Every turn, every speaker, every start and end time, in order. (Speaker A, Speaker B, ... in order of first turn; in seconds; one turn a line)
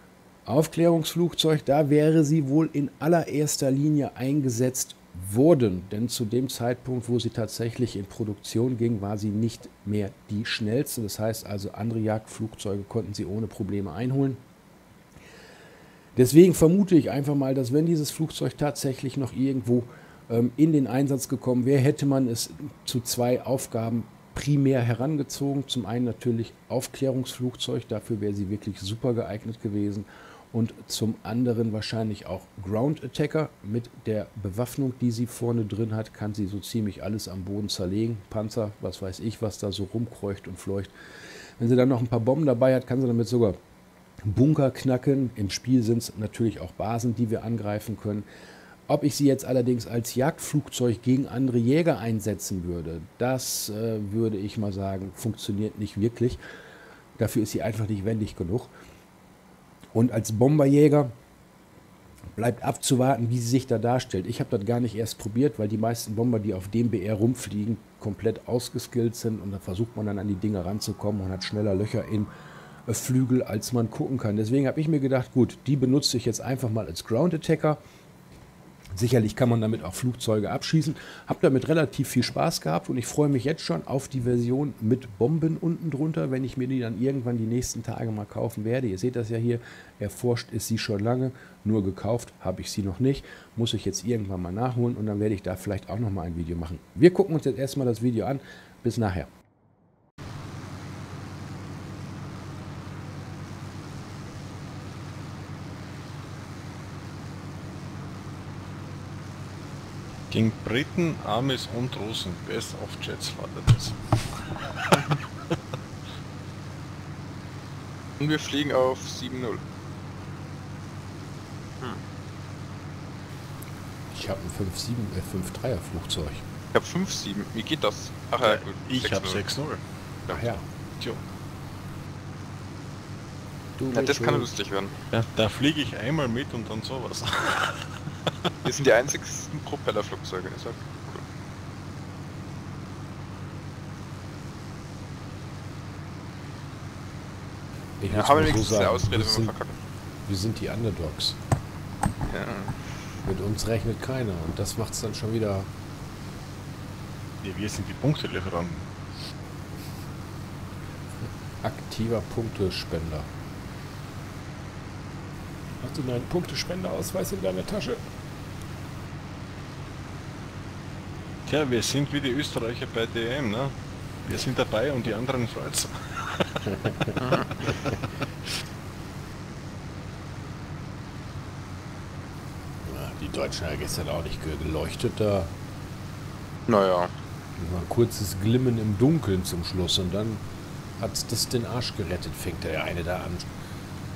Speaker A: 0.5-14.4
Speaker A: 16.1-40.9
Speaker A: 41.6-43.6
Speaker A: 44.2-48.2
Speaker A: 48.9-56.4
Speaker A: 57.2-58.7
Speaker A: 59.9-61.1
Speaker A: 62.4-72.3
Speaker A: 72.9-77.8
Speaker A: 78.9-99.3
Speaker B: 110.3-115.0
Speaker C: 118.2-119.6
Speaker A: 124.1-126.4
Speaker C: 126.7-129.4
Speaker B: 128.4-129.8
Speaker A: 130.3-130.6
Speaker A: 133.8-134.5
Speaker C: 133.9-134.9
Speaker B: 135.1-138.5
Speaker C: 138.6-141.2
Speaker A: 148.0-149.5
Speaker C: 148.1-149.8
Speaker A: 150.2-151.4
Speaker C: 152.2-152.8
Speaker A: 153.2-155.7
Speaker B: 157.4-158.9
Speaker A: 161.6-163.3
Speaker A: 165.8-168.0
Speaker B: 171.4-176.7
Speaker A: 176.7-177.2
Speaker C: 177.2-177.5
Speaker A: 182.8-185.5
Speaker C: 186.7-187.1
Speaker A: 187.6-190.4
Speaker A: 191.0-193.5